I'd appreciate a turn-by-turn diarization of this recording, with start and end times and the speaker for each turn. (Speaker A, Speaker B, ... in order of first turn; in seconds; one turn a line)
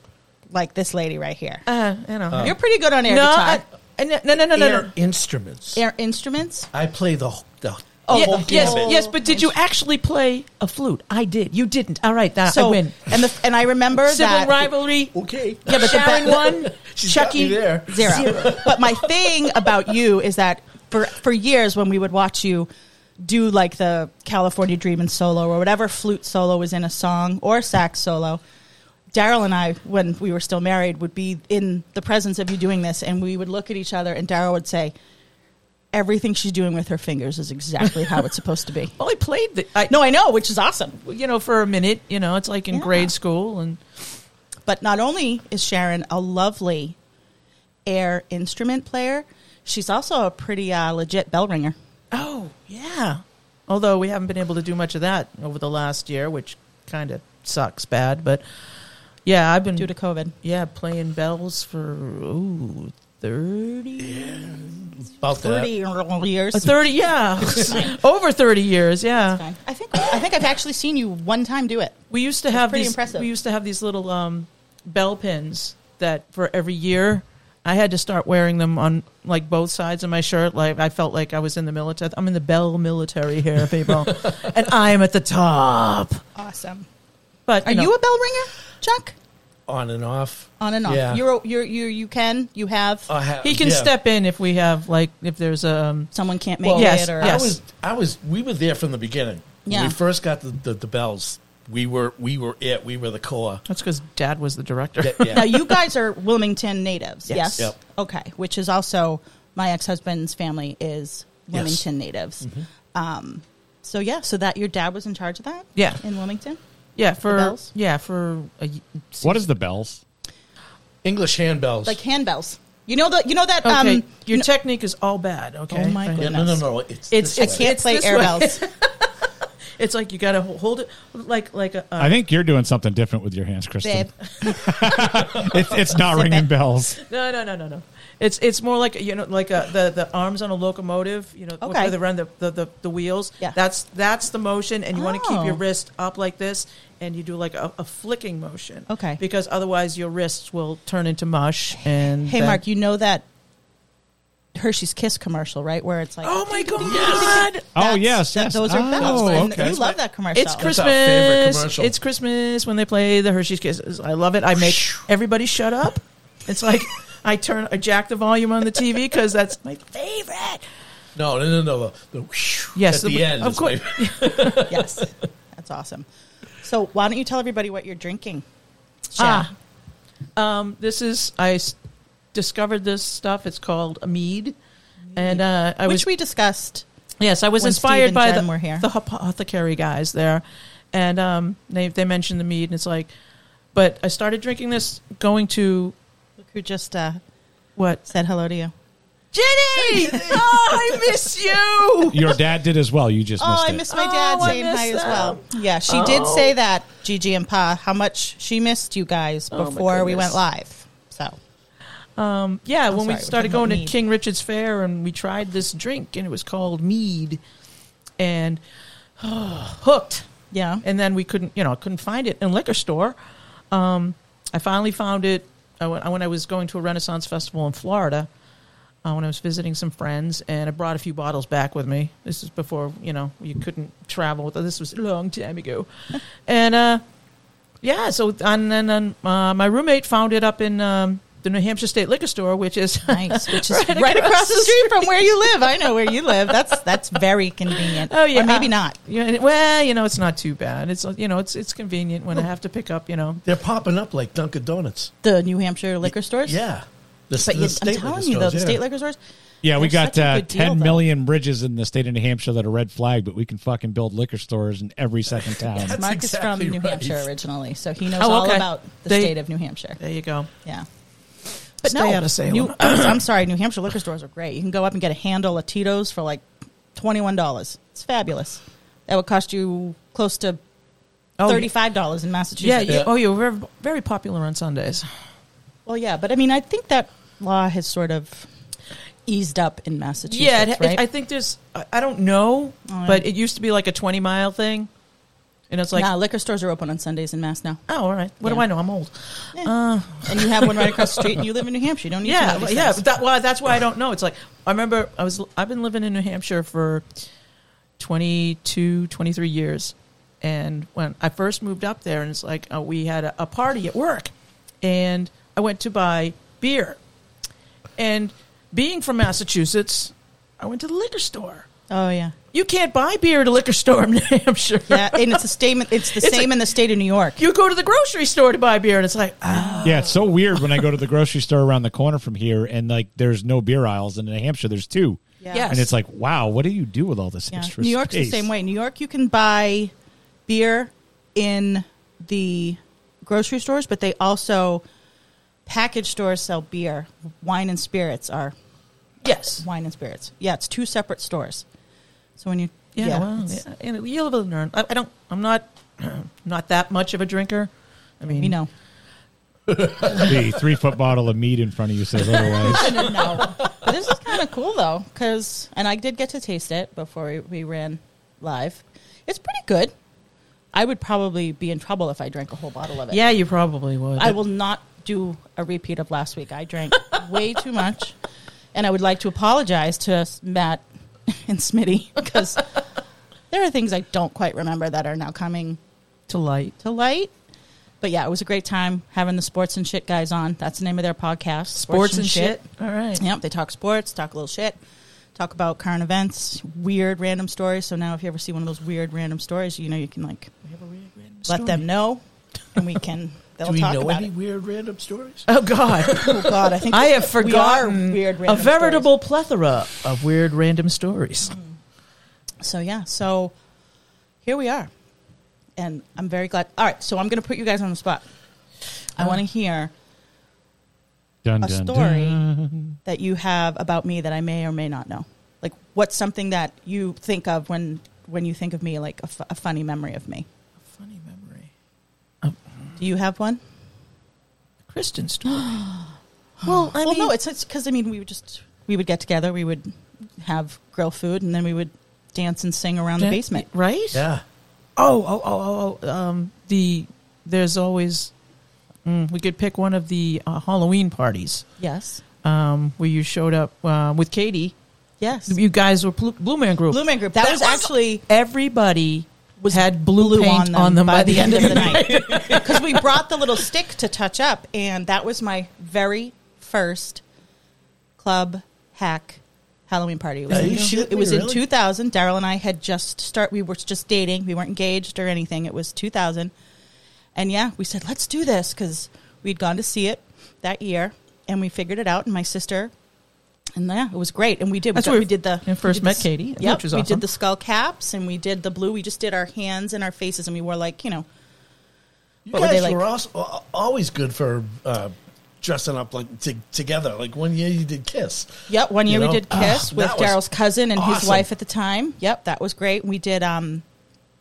Speaker A: 0.5-1.6
Speaker B: 1.6-4.9
Speaker C: 2.3-2.6
Speaker A: 2.4-3.6
Speaker C: 4.5-5.8
Speaker A: 5.7-6.7
Speaker C: 6.7-9.0
Speaker A: 8.0-9.5
Speaker B: 8.1-13.2
Speaker A: 12.5-14.7
Speaker B: 13.9-18.7
Speaker C: 15.2-19.1
Speaker A: 15.7-16.5
Speaker A: 17.9-28.4
Speaker A: 29.1-34.9
Speaker A: 35.9-39.0
Speaker B: 39.0-39.9
Speaker A: 39.9-41.0
Speaker B: 41.0-43.8
Speaker A: 42.7-43.1
Speaker A: 44.7-47.0
Speaker A: 47.9-51.8
Speaker B: 52.1-58.4
Speaker B: 59.2-64.2
Speaker A: 59.8-60.3
Speaker C: 64.0-65.7
Speaker A: 65.3-66.9
Speaker B: 66.5-69.4
Speaker C: 67.4-67.9
Speaker A: 69.3-72.0
Speaker B: 72.1-86.2
Speaker A: 72.5-73.3
Speaker C: 84.1-84.3
Speaker A: 86.3-86.8
Speaker B: 87.5-87.9
Speaker A: 87.6-89.1
Speaker C: 89.7-91.2
Speaker A: 90.6-93.1
Speaker C: 93.1-93.9
Speaker B: 93.4-96.1
Speaker A: 96.1-97.5
Speaker C: 96.6-103.6
Speaker B: 96.7-97.6
Speaker A: 99.7-100.0
Speaker B: 103.7-105.6
Speaker C: 105.0-105.7
Speaker A: 105.3-116.6
Speaker B: 107.3-107.6
Speaker C: 111.5-111.8
Speaker C: 112.4-112.7
Speaker B: 115.8-116.0
Speaker B: 117.0-119.4
Speaker A: 117.2-117.7
Speaker D: 119.2-120.0
Speaker C: 121.0-122.0
Speaker A: 121.8-124.5
Speaker B: 123.6-126.4
Speaker A: 125.7-126.6
Speaker C: 126.1-127.7
Speaker B: 127.1-129.1
Speaker A: 127.3-128.6
Speaker B: 129.8-132.2
Speaker D: 132.0-137.0
Speaker A: 133.8-135.4
Speaker A: 135.9-136.5
Speaker B: 137.1-152.6
Speaker A: 141.6-141.9
Speaker A: 144.9-145.6
Speaker A: 148.9-149.2
Speaker A: 152.2-153.2
Speaker A: 154.5-160.8
Speaker B: 156.2-157.6
Speaker C: 156.8-157.5
Speaker D: 157.8-159.8
Speaker C: 159.0-160.0
Speaker B: 160.3-170.6
Speaker C: 160.6-161.9
Speaker C: 164.6-165.0
Speaker C: 171.1-175.1
Speaker B: 172.8-174.6
Speaker A: 174.7-176.1
Speaker A: 176.6-178.4
Speaker A: 179.1-179.5
Speaker B: 179.2-179.5
Speaker B: 180.3-181.8
Speaker B: 182.3-184.5
Speaker A: 185.1-186.8
Speaker B: 185.1-186.1
Speaker B: 187.2-193.1
Speaker A: 187.6-188.8
Speaker B: 193.7-195.9
Speaker A: 196.5-197.2
Speaker B: 197.8-198.0
Speaker A: 198.1-198.7
Speaker B: 199.3-202.4
Speaker C: 200.0-200.9
Speaker D: 202.1-203.9
Speaker A: 203.4-211.4
Speaker B: 203.9-206.6
Speaker B: 209.5-210.4
Speaker B: 212.2-217.4
Speaker A: 212.9-213.9
Speaker B: 218.2-218.6
Speaker B: 219.2-220.3
Speaker A: 220.5-220.8
Speaker B: 220.8-223.1
Speaker B: 223.7-228.3
Speaker B: 229.0-237.0
Speaker B: 237.8-245.3
Speaker A: 243.1-248.9
Speaker B: 246.1-246.6
Speaker B: 247.7-253.4
Speaker C: 253.4-255.1
Speaker A: 255.2-256.6
Speaker C: 256.4-258.8
Speaker A: 257.4-259.2
Speaker D: 259.6-266.0
Speaker A: 259.7-261.0
Speaker C: 265.4-267.3
Speaker A: 266.0-270.0
Speaker B: 268.2-269.4
Speaker B: 270.0-270.5
Speaker B: 271.8-273.2
Speaker A: 271.8-276.4
Speaker A: 276.9-280.6
Speaker B: 281.4-281.7
Speaker A: 281.4-283.0
Speaker B: 282.6-285.1
Speaker A: 285.9-288.5
Speaker A: 289.2-291.0
Speaker B: 290.3-294.9
Speaker A: 292.9-293.2
Speaker B: 295.7-296.1
Speaker A: 295.9-297.8
Speaker B: 297.9-301.2
Speaker A: 299.5-303.0
Speaker B: 302.2-307.1
Speaker B: 308.0-314.3
Speaker B: 314.8-317.0
Speaker B: 318.0-321.7
Speaker A: 321.9-322.3
Speaker B: 322.5-325.4
Speaker A: 324.9-327.4
Speaker B: 326.1-326.5
Speaker B: 327.4-330.8
Speaker A: 329.5-329.9
Speaker D: 329.8-338.5
Speaker A: 335.4-335.7
Speaker B: 335.5-335.9
Speaker A: 337.5-339.9
Speaker A: 340.5-344.8
Speaker A: 345.7-348.6
Speaker B: 349.2-349.6
Speaker A: 349.3-351.6
Speaker A: 352.4-353.6
Speaker B: 352.9-358.6
Speaker A: 358.4-358.7
Speaker C: 359.7-360.6
Speaker D: 360.2-363.2
Speaker A: 362.7-369.9
Speaker A: 370.7-373.2
Speaker B: 373.1-374.4
Speaker A: 374.2-378.1
Speaker A: 378.7-382.6
Speaker A: 383.5-385.8
Speaker B: 386.3-386.7
Speaker A: 386.8-387.3
Speaker A: 388.0-392.6
Speaker B: 391.8-393.2
Speaker A: 393.2-394.8
Speaker A: 395.4-400.5
Speaker B: 400.7-401.8
Speaker A: 401.5-404.3
Speaker C: 403.6-405.5
Speaker B: 405.5-411.6
Speaker A: 406.2-409.1
Speaker A: 412.6-413.5
Speaker A: 414.4-414.9
Speaker A: 415.8-418.2
Speaker A: 419.2-419.9
Speaker D: 421.4-423.0
Speaker A: 421.6-422.4
Speaker A: 423.1-430.4
Speaker B: 430.9-431.7
Speaker A: 433.0-433.6
Speaker B: 434.9-435.8
Speaker A: 435.5-436.1
Speaker A: 436.6-443.7
Speaker B: 436.6-437.3
Speaker B: 443.2-444.2
Speaker C: 444.1-444.4
Speaker B: 445.0-448.3
Speaker B: 449.1-451.7
Speaker A: 451.8-452.2
Speaker B: 452.4-454.7
Speaker A: 455.2-455.6
Speaker B: 455.5-463.0
Speaker A: 456.9-458.2
Speaker A: 459.6-467.2
Speaker C: 462.1-462.6
Speaker A: 468.2-476.5
Speaker C: 470.5-471.6
Speaker B: 470.6-470.8
Speaker A: 477.3-482.9
Speaker A: 483.8-491.2
Speaker B: 484.9-487.2
Speaker C: 492.4-498.5
Speaker A: 492.5-493.0
Speaker A: 498.7-503.8
Speaker C: 499.1-500.4
Speaker C: 500.9-501.4